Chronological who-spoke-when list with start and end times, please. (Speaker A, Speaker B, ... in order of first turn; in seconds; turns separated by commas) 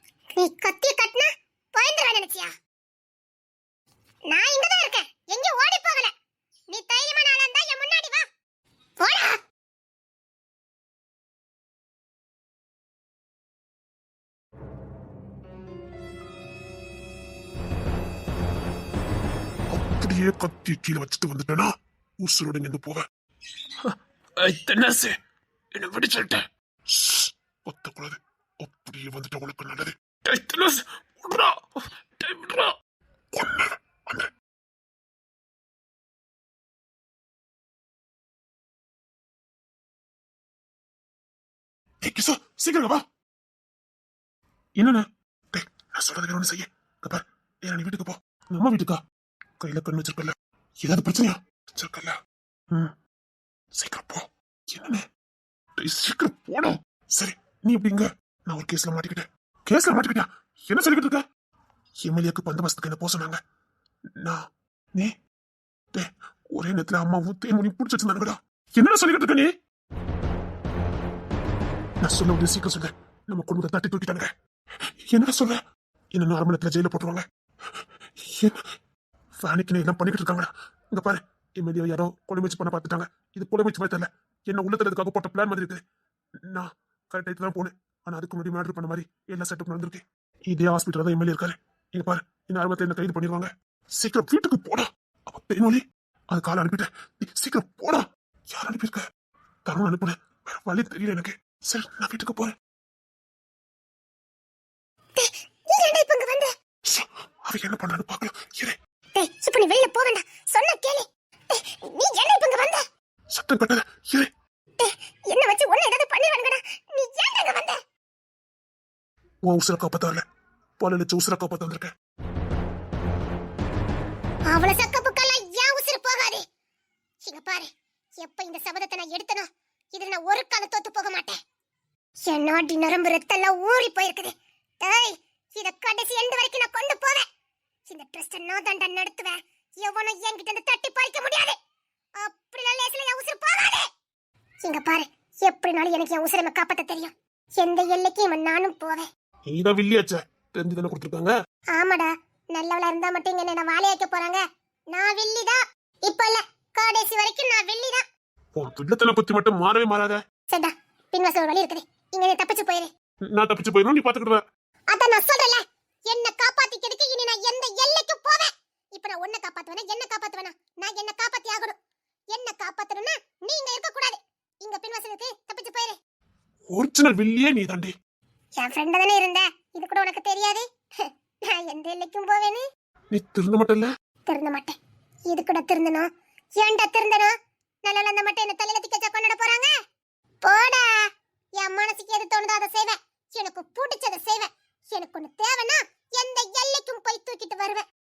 Speaker A: 0.4-2.5, Speaker A: 4.3-6.1, Speaker A: 6.7-8.2, Speaker A: 9.0-9.4, Speaker B: 19.7-23.0, Speaker C: 23.9-25.1, Speaker C: 25.8-26.4, Speaker B: 27.0-29.9, Speaker C: 30.3-31.5, Speaker C: 32.2-32.7, Speaker B: 33.3-34.3, Speaker B: 42.0-43.0, Speaker B: 44.8-49.0, Speaker B: 49.6-52.2, Speaker B: 53.8-55.0, Speaker B: 55.8-61.2, Speaker B: 62.0-63.4, Speaker B: 65.9-69.5, Speaker B: 72.0-74.3, Speaker B: 75.1-75.6, Speaker B: 76.1-77.2, Speaker B: 78.2-78.6, Speaker B: 79.4-85.8, Speaker B: 86.5-99.0, Speaker B: 99.7-102.5, Speaker A: 105.2-106.5, Speaker B: 106.9-108.8, Speaker A: 109.2-112.8, Speaker B: 113.3-114.3, Speaker A: 114.8-117.8, Speaker B: 119.5-120.2, Speaker B: 120.8-121.9, Speaker A: 124.5-126.4, Speaker A: 127.2-127.7, Speaker A: 128.2-131.4, Speaker A: 132.3-137.2, Speaker A: 137.9-141.6, Speaker A: 142.2-143.9, Speaker A: 144.6-149.1, Speaker B: 149.5-151.3, Speaker A: 151.8-154.4, Speaker A: 154.9-158.0, Speaker B: 158.6-160.2, Speaker A: 160.5-162.9, Speaker B: 163.3-164.4, Speaker A: 164.9-171.8, Speaker A: 172.3-176.0, Speaker B: 176.7-177.9, Speaker A: 178.6-180.6, Speaker A: 181.5-182.6, Speaker B: 183.1-183.9, Speaker A: 184.3-184.8, Speaker A: 185.3-186.1, Speaker A: 186.6-187.3, Speaker A: 187.8-189.7, Speaker A: 190.4-190.9, Speaker A: 191.6-197.8